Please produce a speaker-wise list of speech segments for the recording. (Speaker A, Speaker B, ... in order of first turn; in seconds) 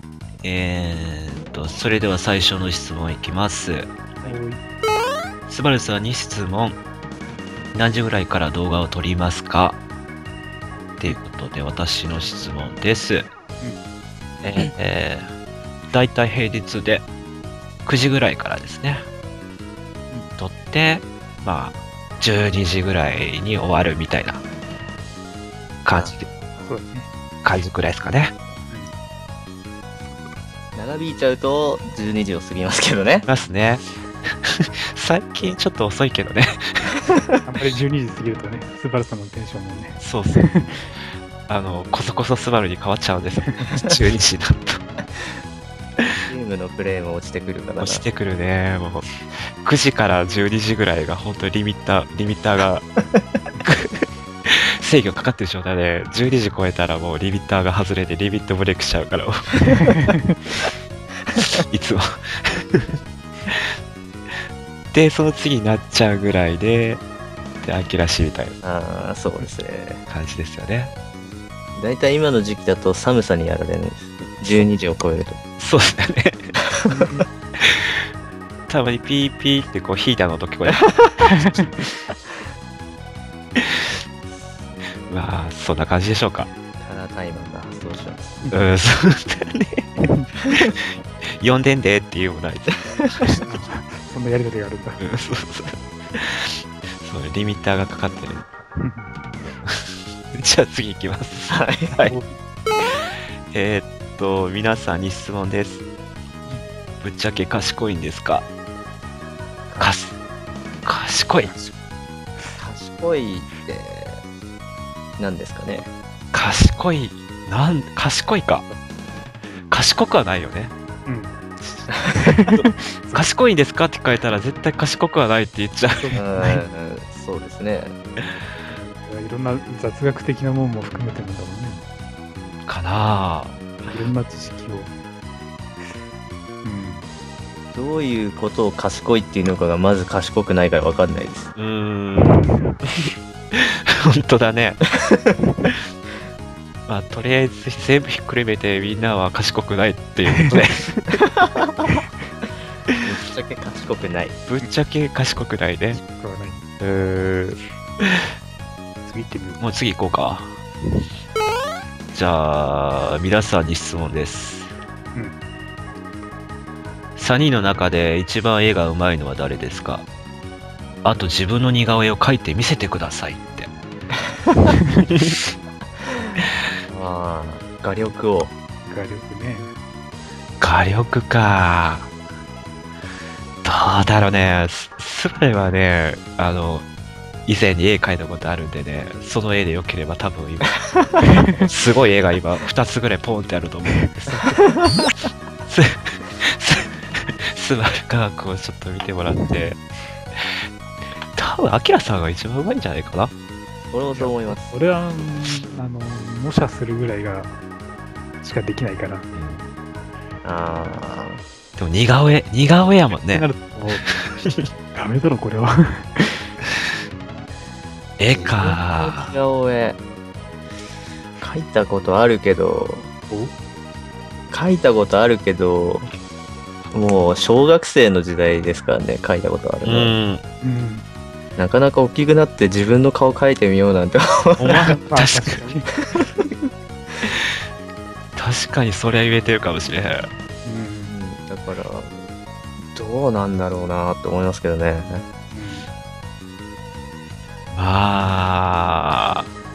Speaker A: 0.4-3.9, 5.5-6.8, 7.7-9.8, 11.0-13.3, 14.4-15.3, 15.9-17.1, 17.9-19.1, 20.4-24.4, 25.8-26.3, 27.4-28.3, 33.3-37.0, 40.0-44.8, 47.8-52.9, 53.6-59.6, 61.7-63.8, 64.9-67.0, 67.6-68.6, 70.1-70.9, 75.6-76.5, 77.6-78.1, 78.7-81.5, 83.6-84.0, 85.1-86.5, 88.5-89.9, 90.5-90.9, 91.4-93.4, 95.0-98.7, 99.6-102.2, 103.5-105.8, 107.0-108.5, 109.8-110.2, 110.8-111.5, 116.3-118.7, 119.7-120.7, 123.1-126.2, 132.7-134.0, 141.6-142.4, 143.5-144.9, 146.9-151.2, 154.5-156.0, 156.8-158.3, 159.6-160.6, 162.1-164.7, 167.2-170.1, 171.0-173.7, 175.1-175.4, 180.6-182.1, 183.6-186.9, 187.5-191.1, 191.6-194.8, 195.7-199.8, 200.3-200.7, 201.3-203.3, 209.3-209.7, 211.8-213.5, 214.0-214.7, 218.2-219.3, 229.8-230.4, 234.6-235.7, 237.2-237.6, 238.4-240.3, 247.7-249.5
Speaker B: 4.2-4.6, 26.6-27.1, 37.4-40.9, 59.6-60.4, 76.9-77.3, 81.2-82.0, 93.3-95.0, 98.8-99.2, 102.1-102.4, 111.4-111.8, 121.1-123.3, 126.0-126.6, 128.7-131.8, 133.9-134.9, 136.6-137.1, 156.0-156.7, 159.1-159.6, 178.8-179.7, 191.2-191.7, 194.3-194.6, 204.1-207.6, 208.4-209.3, 213.3-214.0, 214.9-216.5, 230.6-231.0, 235.0-235.9, 240.6-241.2, 245.5-245.9
Speaker C: 30.8-33.3, 46.3-48.0, 61.4-61.6, 68.6-70.0, 71.8-75.4, 76.7-77.2, 86.8-88.4, 93.0-93.2, 101.5-102.0, 109.7-109.9, 112.6-114.2, 115.2-115.9, 126.2-128.0, 137.7-141.5, 145.1-145.3, 151.4-151.7, 153.0-154.4, 176.9-178.5, 203.9-204.7, 210.4-211.4, 218.3-220.0, 221.4-223.1, 224.5-226.0, 226.9-230.1, 231.6-235.0, 236.0-236.7, 241.1-242.1, 242.8-245.2